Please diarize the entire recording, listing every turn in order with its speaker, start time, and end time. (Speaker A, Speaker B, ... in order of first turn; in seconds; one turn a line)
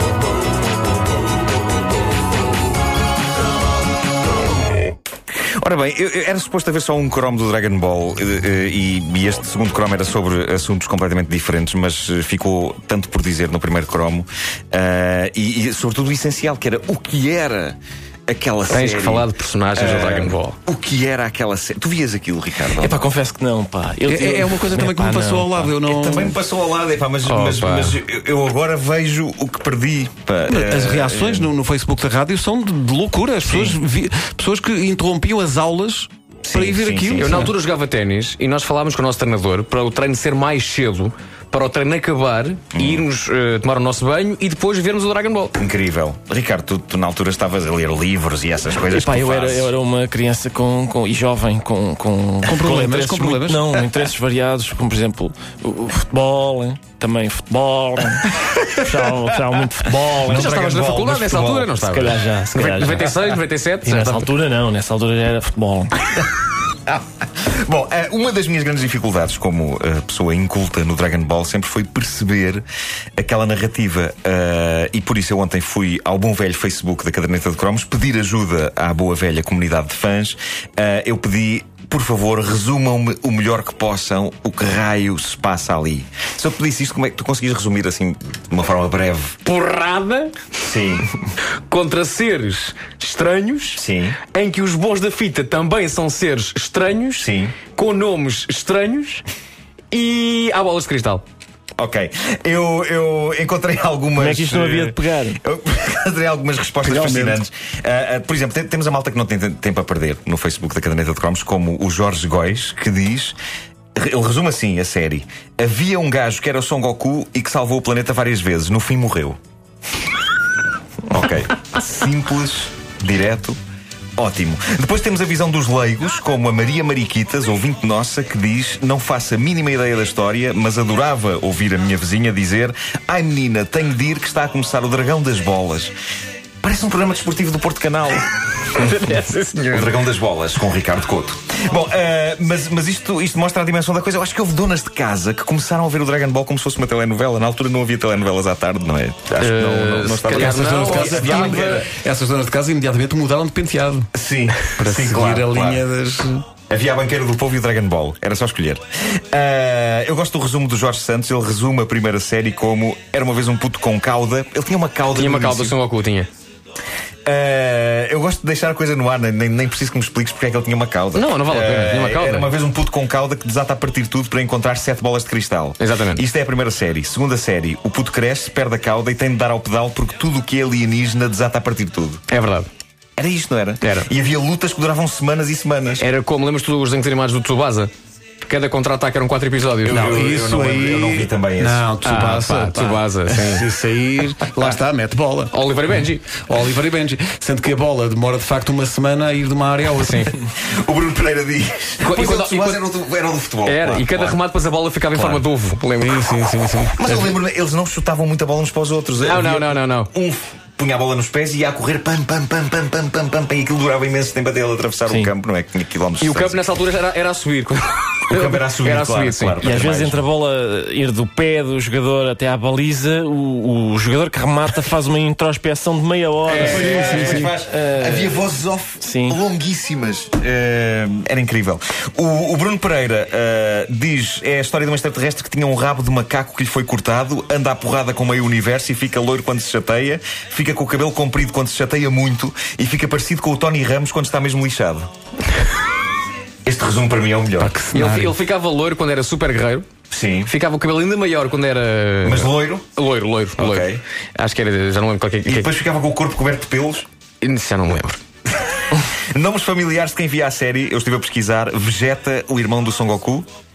Speaker A: 5.6-23.1
Speaker B: 18.7-20.6
Speaker C: 22.8-25.7
Speaker D: 24.1-26.4
Speaker A: 25.9-31.5
Speaker B: 27.2-28.0
Speaker D: 30.5-37.5
Speaker B: 33.5-33.8
Speaker A: 36.5-37.5
Speaker B: 37.1-45.6
Speaker A: 42.7-43.1
Speaker A: 45.6-49.8
Speaker C: 48.9-60.5
Speaker D: 52.5-53.8
Speaker A: 59.9-61.8
Speaker B: 60.3-64.3
Speaker C: 61.8-66.0
Speaker A: 66.9-72.6
Speaker A: 73.2-89.4
Speaker B: 89.5-90.3
Speaker A: 90.6-91.1
Speaker B: 91.7-99.2
Speaker A: 93.8-94.2
Speaker A: 97.2-97.6
Speaker B: 99.9-101.2
Speaker A: 101.8-113.3
Speaker C: 104.2-105.4
Speaker C: 106.9-107.3
Speaker A: 114.0-119.4
Speaker A: 121.1-123.6
Speaker A: 124.2-135.9
Speaker A: 136.6-138.3
Speaker B: 138.7-140.0
Speaker A: 139.7-151.8
Speaker B: 149.4-151.9
Speaker D: 150.3-154.1
Speaker A: 154.2-155.8
Speaker D: 154.8-156.4
Speaker A: 156.7-165.8
Speaker B: 165.2-166.3
Speaker A: 167.3-182.2
Speaker B: 171.1-172.5
Speaker B: 175.8-176.2
Speaker B: 182.3-182.7
Speaker A: 183.2-186.1
Speaker B: 183.8-184.1
Speaker B: 186.0-187.9
Speaker B: 188.4-190.2
Speaker A: 189.8-191.8
Speaker D: 189.9-195.6
Speaker B: 192.0-193.7
Speaker B: 195.5-196.4
Speaker D: 196.3-200.3
Speaker B: 200.0-200.3
Speaker A: 200.6-204.4
Speaker B: 202.0-202.8
Speaker B: 203.7-206.3
Speaker A: 205.1-205.4
Speaker D: 206.0-207.3
Speaker A: 207.0-216.6
Speaker B: 209.2-210.1
Speaker C: 215.1-215.3
Speaker B: 216.2-219.6
Speaker A: 218.3-220.3
Speaker C: 219.6-228.4
Speaker B: 226.4-227.5
Speaker A: 226.5-245.1
Speaker C: 229.0-229.4
Speaker A: 246.7-247.7
Speaker D: 247.6-248.4
Speaker B: 247.9-249.9
Speaker A: 250.1-250.5
Speaker B: 250.4-255.7
Speaker A: 252.2-252.8
Speaker A: 253.6-254.0
Speaker A: 255.4-257.1
Speaker B: 257.4-258.2
Speaker A: 258.7-263.5